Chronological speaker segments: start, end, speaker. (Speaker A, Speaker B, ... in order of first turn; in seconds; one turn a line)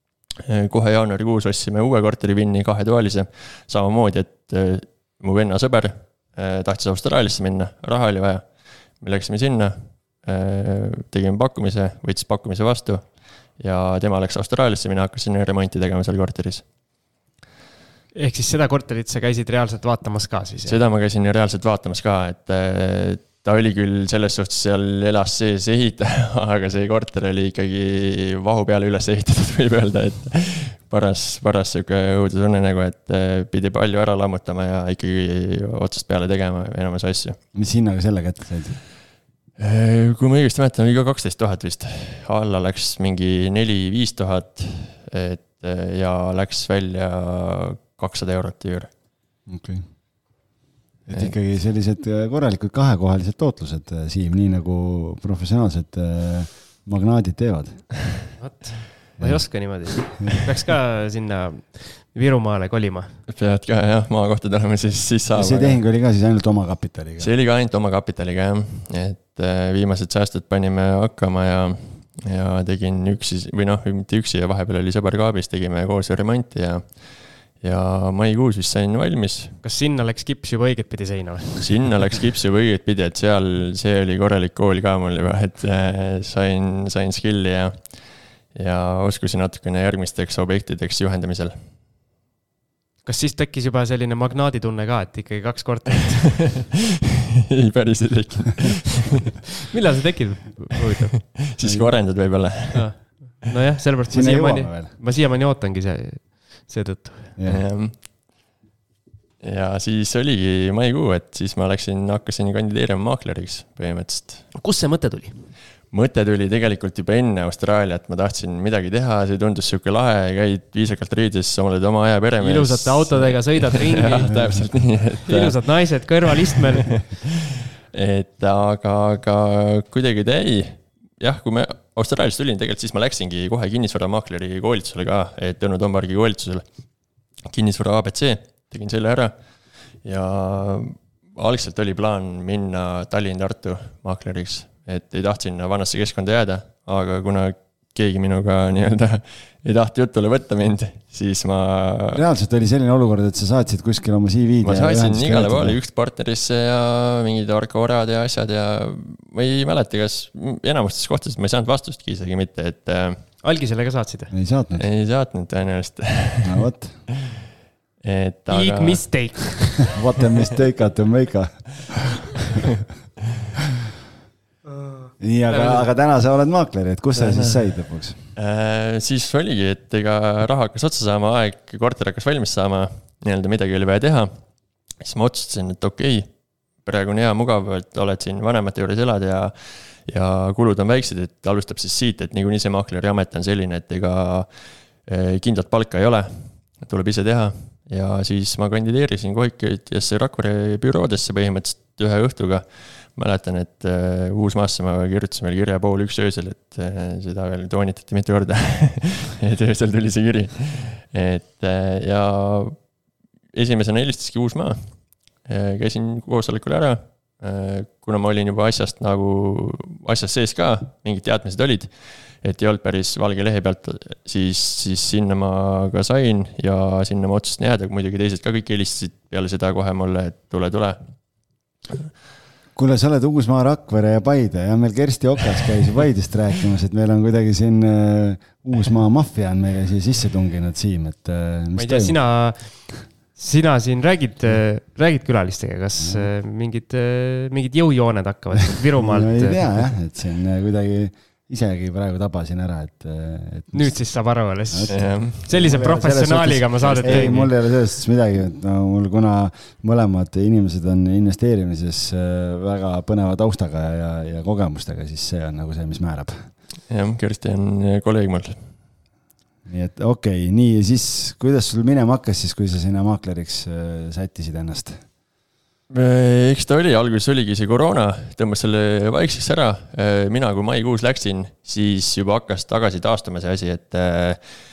Speaker A: 0.4-16.6
Speaker B: 18.1-20.8
Speaker A: 20.6-37.4
Speaker C: 37.5-38.8
Speaker A: 39.6-48.9
Speaker C: 49.5-49.9
Speaker C: 51.1-57.9
Speaker B: 58.4-63.2
Speaker C: 59.2-59.8
Speaker A: 63.3-65.8
Speaker C: 65.3-67.3
Speaker A: 67.2-79.6
Speaker B: 79.6-81.6
Speaker A: 81.6-91.6
Speaker B: 93.0-96.5
Speaker A: 97.5-99.3
Speaker B: 99.7-101.2
Speaker A: 101.4-103.2
Speaker C: 101.6-101.9
Speaker B: 102.7-107.3
Speaker C: 104.1-104.9
Speaker C: 107.4-107.6
Speaker A: 107.5-108.0
Speaker A: 109.4-114.5
Speaker B: 114.5-115.5
Speaker A: 115.9-125.6
Speaker B: 122.4-124.4
Speaker C: 124.2-124.6
Speaker B: 125.2-127.0
Speaker A: 126.8-127.2
Speaker A: 127.9-136.6
Speaker A: 137.4-139.3
Speaker A: 140.0-152.2
Speaker C: 152.1-155.8
Speaker A: 154.6-163.2
Speaker B: 163.4-164.3
Speaker C: 164.3-164.9
Speaker A: 164.8-166.7
Speaker C: 166.4-167.0
Speaker A: 168.0-169.3
Speaker B: 168.5-169.9
Speaker C: 169.9-172.2
Speaker C: 175.2-178.2
Speaker B: 175.5-175.8
Speaker A: 177.2-177.8
Speaker A: 178.4-184.3
Speaker A: 185.0-186.3
Speaker A: 186.8-194.5
Speaker A: 195.0-212.8
Speaker A: 213.5-221.9
Speaker A: 222.4-231.0
Speaker C: 232.7-242.2
Speaker B: 241.7-249.7
Speaker C: 246.0-246.3
Speaker C: 249.0-254.0
Speaker B: 253.7-257.5
Speaker C: 254.7-266.5
Speaker A: 254.9-255.4
Speaker A: 256.8-257.3
Speaker A: 266.9-268.6
Speaker C: 269.6-275.0
Speaker A: 275.9-284.4